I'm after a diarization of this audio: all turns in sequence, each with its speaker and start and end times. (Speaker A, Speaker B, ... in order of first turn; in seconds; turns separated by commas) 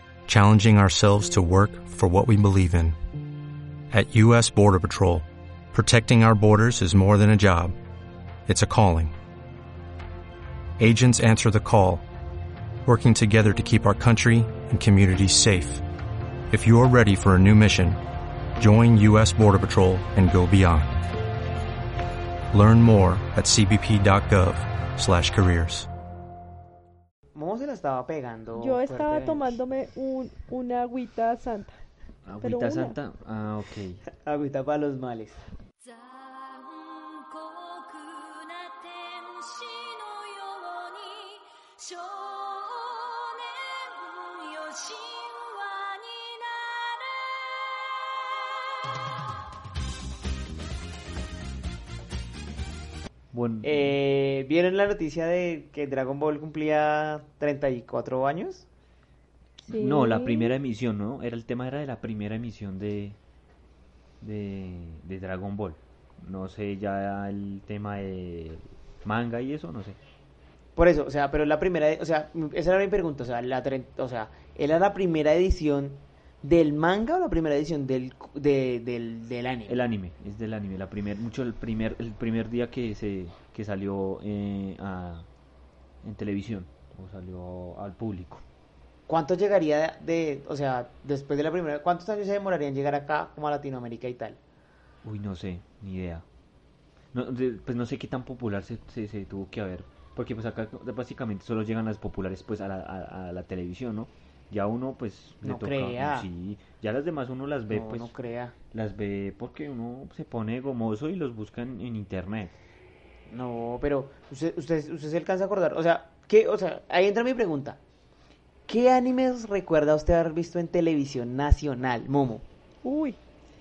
Speaker A: 0.3-3.0, Speaker A: 3.9-7.7, Speaker A: 8.5-9.1, Speaker A: 10.8-12.0, Speaker A: 12.9-15.8, Speaker A: 16.5-18.0, Speaker A: 18.6-21.0, Speaker A: 22.5-25.9, Speaker B: 27.4-29.6, Speaker C: 28.6-31.8, Speaker D: 32.3-34.0, Speaker C: 32.4-33.0, Speaker B: 34.1-35.4, Speaker E: 35.8-48.6, Speaker D: 53.3-53.9, Speaker B: 53.6-58.7, Speaker C: 59.7-60.6, Speaker D: 59.7-63.2, Speaker D: 64.2-70.0, Speaker B: 70.8-79.8, Speaker D: 79.7-85.3, Speaker D: 86.0-88.4, Speaker B: 89.1-94.4, Speaker D: 95.0-96.2, Speaker D: 97.1-108.1, Speaker B: 105.4-106.3, Speaker B: 107.7-108.6, Speaker D: 108.7-112.5, Speaker B: 113.3-117.8, Speaker B: 118.7-122.4, Speaker C: 122.8-123.2